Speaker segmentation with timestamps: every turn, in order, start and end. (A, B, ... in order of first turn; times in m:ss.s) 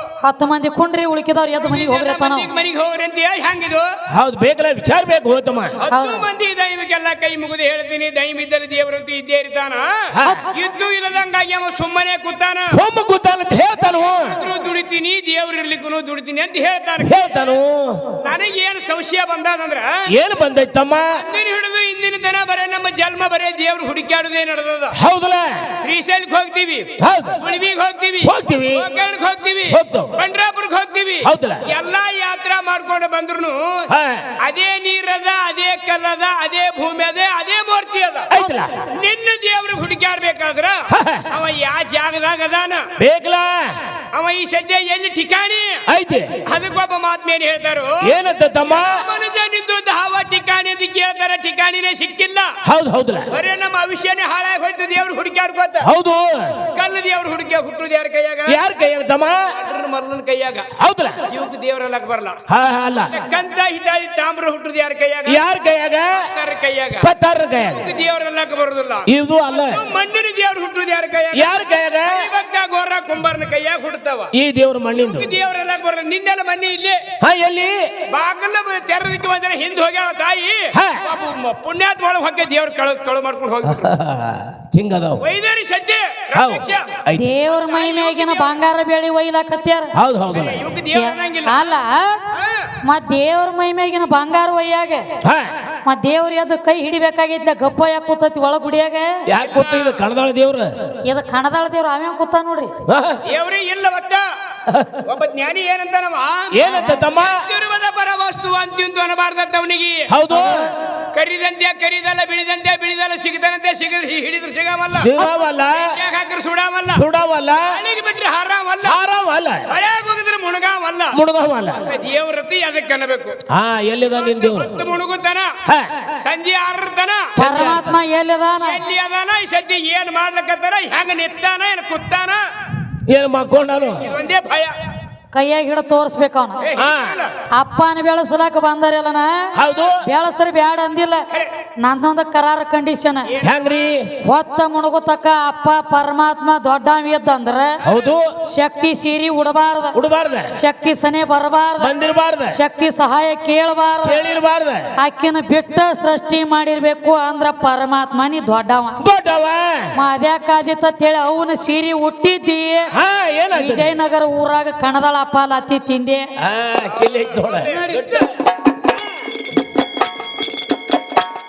0:00.2-0:02.5 A
0:01.6-0:03.9 B
0:04.1-0:05.8 C
0:05.8-0:12.8 B
0:05.9-0:06.2 A
0:10.1-0:10.4 C
0:12.7-0:14.4 C
0:14.2-0:17.2 B
0:17.0-0:18.2 C
0:18.2-0:20.1 B
0:20.1-0:21.2 C
0:21.2-0:25.0 B
0:24.9-0:25.7 C
0:25.8-0:33.9 B
0:27.0-0:27.4 C
0:28.2-0:28.9 C
0:29.7-0:30.1 C
0:31.2-0:31.6 C
0:33.9-0:34.3 C
0:34.4-0:38.3 B
0:38.3-0:38.8 C
0:38.4-0:38.7 A
0:38.9-0:42.9 B
0:40.9-0:41.3 C
0:43.0-0:43.8 C
0:44.1-0:45.8 B
0:45.9-0:46.4 C
0:46.4-0:52.6 B
0:48.0-0:49.1 C
0:52.6-0:53.3 C
0:53.3-0:55.9 B
0:55.8-0:56.7 C
0:56.7-0:58.6 B
0:58.5-0:59.5 C
0:59.5-1:00.7 B
1:00.8-1:01.2 C
1:01.3-1:02.4 B
1:02.5-1:03.2 C
1:03.1-1:05.4 B
1:05.3-1:06.3 C
1:06.2-1:07.1 B
1:07.0-1:07.9 C
1:07.8-1:09.1 B
1:09.1-1:09.8 C
1:09.7-1:14.3 B
1:11.3-1:12.3 C
1:14.3-1:15.3 C
1:15.0-1:17.1 B
1:17.2-1:17.9 C
1:18.1-1:23.9 B
1:20.7-1:21.0 C
1:23.6-1:25.2 C
1:25.2-1:28.6 B
1:26.3-1:27.3 C
1:27.1-1:29.9 A
1:30.0-1:30.6 C
1:30.3-1:31.8 B
1:30.9-1:32.2 A
1:32.4-1:32.7 B
1:32.8-1:35.1 A
1:35.2-1:35.5 C
1:35.8-1:39.2 A
1:39.3-1:40.7 C
1:39.5-1:39.9 B
1:41.0-1:42.7 A
1:42.9-1:43.2 C
1:43.3-1:44.3 B
1:44.7-1:45.0 C
1:45.0-1:50.1 B
1:46.5-1:47.4 C
1:50.1-1:50.7 C
1:50.3-1:50.7 A
1:51.1-1:55.2 B
1:54.9-1:56.0 C
1:55.7-1:57.0 B
1:56.9-1:57.8 C
1:57.7-1:59.0 B
1:58.8-1:59.7 C
1:59.7-2:01.2 B
2:01.1-2:01.8 C
2:01.9-2:03.4 B
2:03.5-2:04.8 C
2:04.2-2:05.6 B
2:05.6-2:06.0 C
2:06.2-2:07.4 B
2:07.4-2:08.0 C
2:07.4-2:08.8 A
2:08.7-2:12.4 B
2:13.1-2:14.1 C
2:14.0-2:14.8 B
2:15.3-2:16.7 A
2:16.6-2:17.3 B
2:16.8-2:17.2 C
2:17.5-2:19.5 A
2:19.6-2:20.0 C
2:20.0-2:21.3 A
2:21.8-2:23.3 A
2:23.4-2:24.1 C
2:24.2-2:27.8 A
2:27.8-2:28.3 C
2:28.5-2:30.0 A
2:30.0-2:30.5 C
2:30.6-2:31.9 A
2:31.8-2:32.6 C
2:32.5-2:34.2 A
2:34.0-2:34.9 C
2:35.0-2:39.0 A
2:39.0-2:39.9 C
2:40.0-2:42.9 A
2:42.9-2:43.9 C
2:43.5-2:46.3 A
2:46.4-2:48.3 C
2:47.3-2:48.2 B